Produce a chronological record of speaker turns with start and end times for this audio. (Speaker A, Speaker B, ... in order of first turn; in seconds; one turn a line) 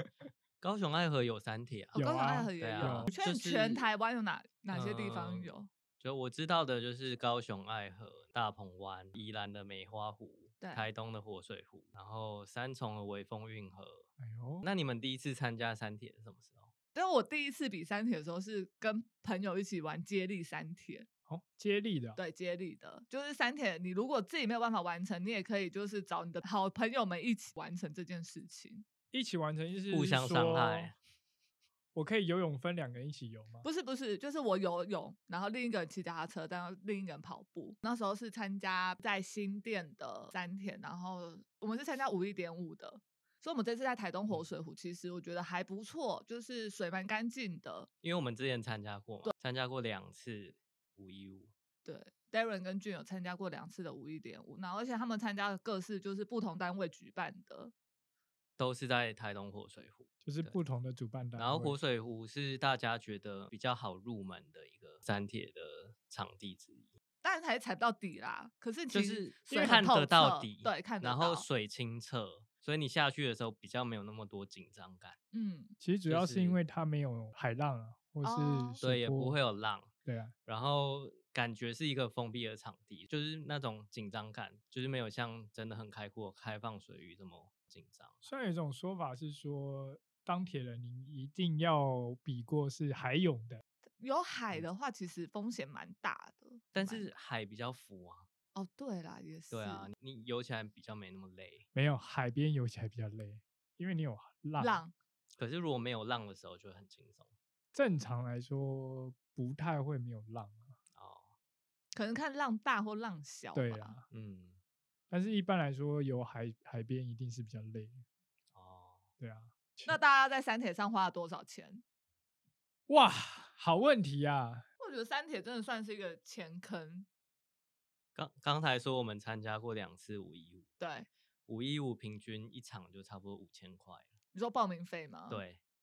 Speaker A: 0.6-3.9
Speaker B: 1.9-3.1
Speaker C: 1.9-5.7
Speaker A: 4.7-14.1
Speaker C: 10.6-10.9
Speaker B: 14.2-14.7
Speaker A: 14.6-16.7
Speaker C: 16.9-21.1
Speaker B: 21.3-22.2
Speaker C: 22.2-28.9
Speaker B: 29.1-30.9
Speaker A: 29.9-30.9
Speaker B: 31.9-33.6
Speaker C: 33.6-47.9
Speaker A: 48.0-51.5
Speaker C: 51.9-57.7
Speaker A: 58.6-60.6
Speaker B: 60.2-61.8
Speaker A: 61.4-66.9
Speaker C: 67.2-71.5
Speaker A: 68.9-75.2
Speaker B: 69.6-69.9
Speaker C: 75.3-75.8
Speaker B: 75.8-79.4
Speaker A: 76.1-76.6
Speaker C: 78.2-78.8
Speaker A: 78.8-79.9
Speaker B: 80.0-80.3
Speaker A: 80.5-88.2
Speaker B: 88.2-93.6
Speaker C: 94.0-97.1
Speaker A: 96.8-98.3
Speaker C: 98.5-99.9
Speaker A: 99.5-101.7
Speaker B: 101.7-104.8
Speaker C: 104.6-104.9
Speaker A: 105.4-107.3
Speaker B: 107.7-110.7
Speaker A: 111.0-111.3
Speaker C: 111.9-114.0
Speaker B: 113.5-114.1
Speaker A: 114.1-114.6
Speaker B: 115.1-118.0
Speaker A: 118.5-119.1
Speaker B: 119.2-120.0
Speaker C: 119.9-121.8
Speaker B: 122.9-124.6
Speaker C: 124.8-127.1
Speaker A: 128.2-130.7
Speaker C: 130.8-131.1
Speaker A: 131.5-134.1
Speaker C: 134.3-135.4
Speaker A: 135.3-135.6